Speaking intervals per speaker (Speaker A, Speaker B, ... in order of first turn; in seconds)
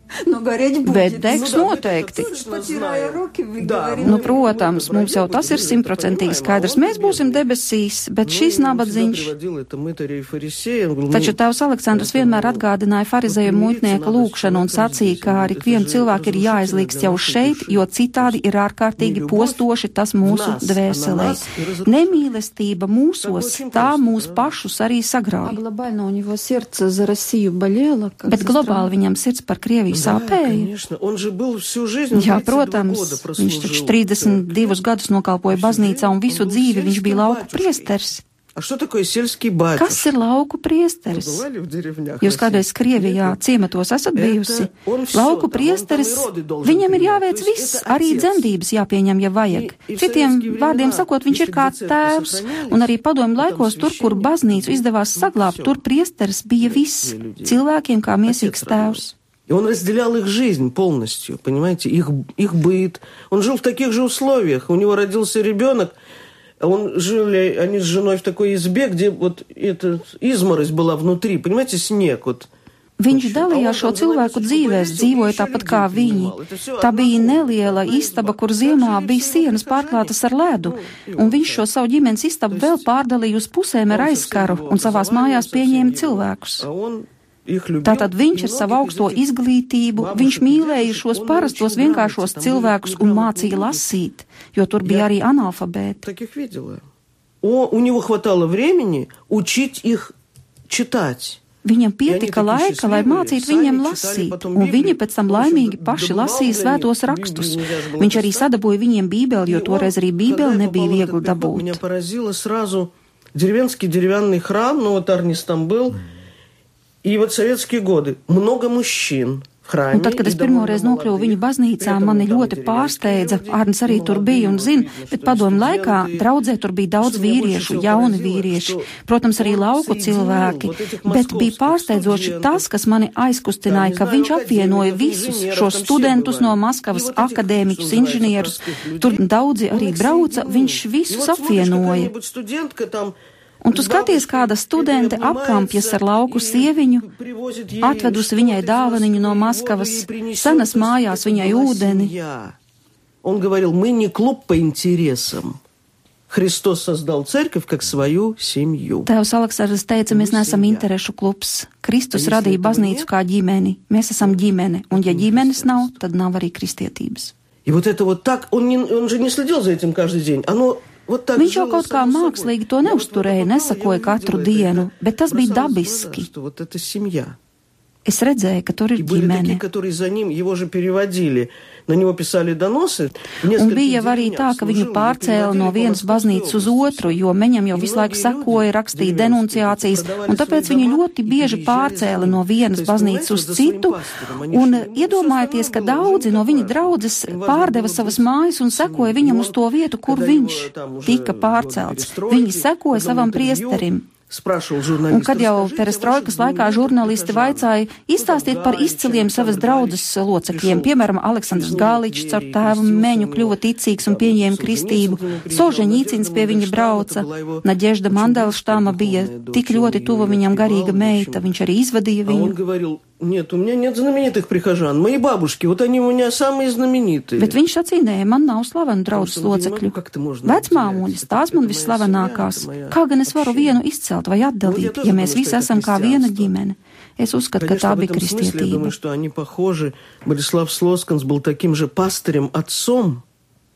Speaker A: 0.2-4.5, 25.4-28.9
Speaker B: 0.8-2.3, 4.0-9.3, 11.1-25.6, 28.3-30.7, 32.1-38.2, 39.8-41.4, 42.2-59.1, 73.0-86.7, 87.8-96.0, 101.6-111.8, 119.9-142.1, 143.6-147.1, 147.8-152.1, 159.1-167.3, 171.3-176.3, 178.0-179.6, 183.5-204.1, 205.1-222.5, 227.4-229.9, 230.4-238.9
Speaker C: 1.2-7.4, 8.2-11.4, 11.9-12.7, 13.2-18.4, 19.0-19.6, 20.2-22.2, 23.2-24.6, 29.9-34.8, 35.5-37.9, 38.5-40.1, 41.1-43.4, 44.1-48.5, 49.5-55.8, 56.6-57.6, 58.2-66.0, 66.6-72.5, 73.1-81.7, 82.5-83.0, 83.9-89.2, 89.9-93.9, 94.8-95.1, 96.0-96.8, 97.4-100.1, 100.7-101.4, 102.0-108.5, 109.4-116.0, 117.0-126.3, 127.0-132.7, 133.6-143.2, 143.7-152.6, 153.2-155.6, 156.3-159.1, 160.1-160.9, 162.1-163.1, 164.2-166.0, 167.6-177.4, 179.0-221.5, 222.2-227.6, 229.1-233.8, 234.6-236.5, 237.6-243.2